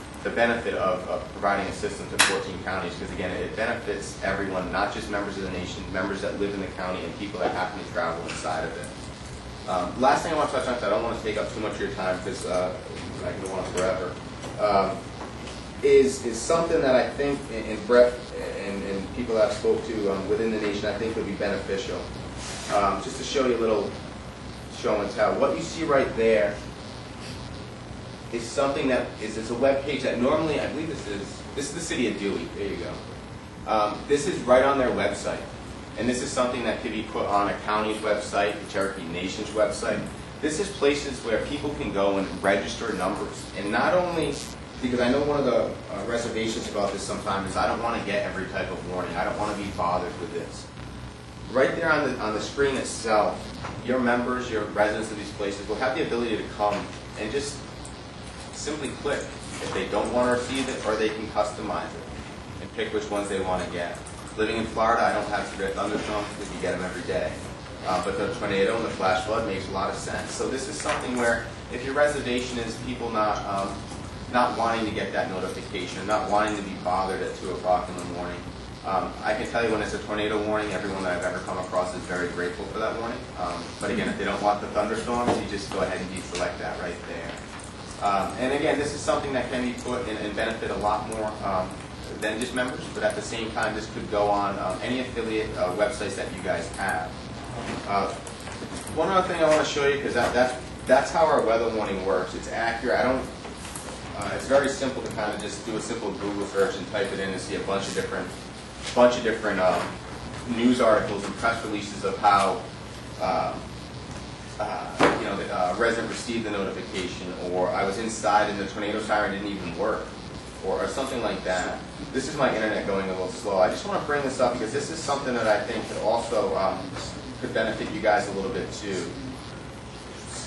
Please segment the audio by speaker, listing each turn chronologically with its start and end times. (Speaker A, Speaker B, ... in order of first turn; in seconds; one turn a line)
Speaker A: 0.2-8.9
Speaker A: 9.7-15.0
Speaker A: 15.8-22.0
Speaker A: 22.7-23.9
Speaker A: 24.7-26.5
Speaker A: 28.3-33.0
Speaker A: 33.6-50.6
Speaker A: 51.5-57.6
Speaker A: 58.5-62.1
Speaker A: 62.6-73.8
Speaker A: 74.3-87.4
Speaker A: 88.0-97.1
Speaker A: 97.8-98.1
Speaker A: 98.9-103.3
Speaker A: 104.1-108.3
Speaker A: 108.9-109.9
Speaker A: 110.5-112.6
Speaker A: 113.2-113.6
Speaker A: 114.6-129.2